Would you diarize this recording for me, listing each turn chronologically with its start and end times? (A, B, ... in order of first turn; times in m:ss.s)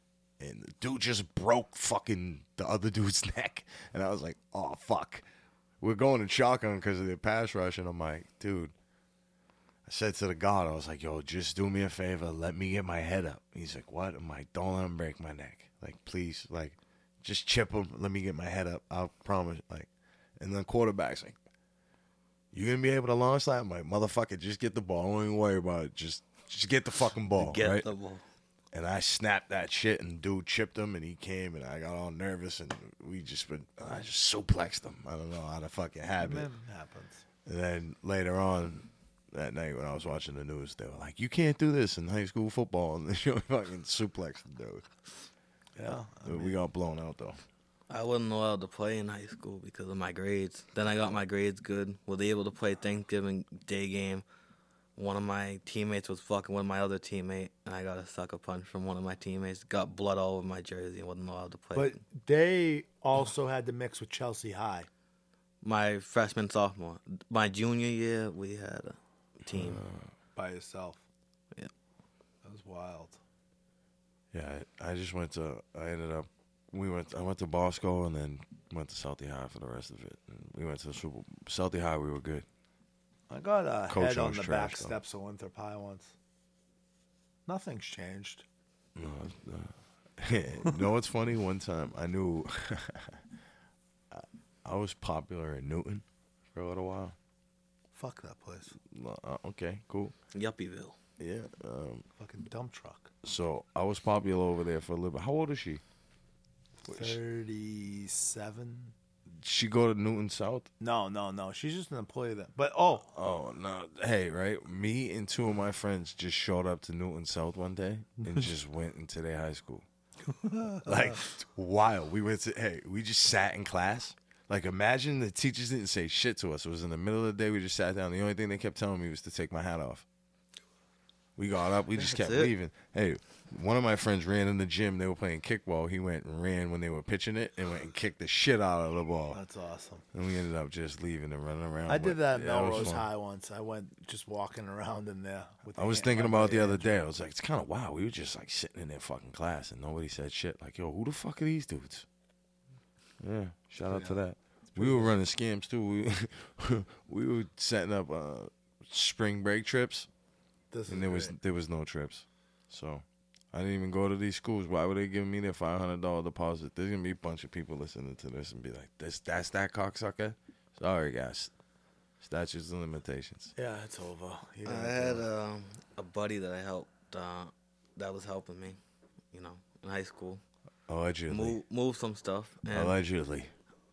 0:00.4-0:05.2 A
0:05.8-0:08.7 A
0:09.9-0:21.4 A
0:22.5-0:27.9 A
0:27.4-0:28.2 B
0:28.7-0:36.5 A
0:36.2-0:37.2 C
0:37.5-0:44.9 A
0:45.8-0:46.6 C
0:45.9-0:47.4 A
0:47.9-0:54.2 B
0:55.0-1:02.0 B
1:01.7-1:04.9 C
1:05.6-1:09.8 B
1:09.5-1:10.1 A
1:10.4-1:11.0 C
1:12.4-1:13.2 C
1:14.3-1:22.5 A
1:23.3-1:26.1 C
1:23.9-1:25.0 A
1:27.5-1:28.4 C
1:29.0-1:33.2 A
1:34.1-1:37.2 A
1:37.9-1:38.8 C
1:38.8-1:40.1 A
1:40.3-1:41.0 B
1:41.2-1:42.1 A
1:42.2-1:43.1 C
1:43.2-1:45.8 A
1:46.9-1:48.9 C
1:46.9-1:47.2 A
1:49.4-1:50.7 A
1:50.8-1:53.1 C
1:53.1-1:59.9 A
2:00.2-2:01.2 C
2:00.8-2:10.0 A
2:11.4-2:19.4 A
2:12.0-2:12.5 B
2:19.3-2:20.0 C
2:20.1-2:23.1 A
2:21.9-2:26.9 C
2:25.8-2:32.1 A
2:33.2-2:40.1 A
2:33.9-2:35.1 C
2:40.7-2:41.4 C
2:40.9-2:51.5 A
2:52.2-2:53.5 A
2:53.6-2:55.2 C
2:54.6-2:58.8 B
2:59.3-3:00.4 B
3:00.9-3:01.6 A
3:01.3-3:03.0 B
3:02.7-3:03.5 A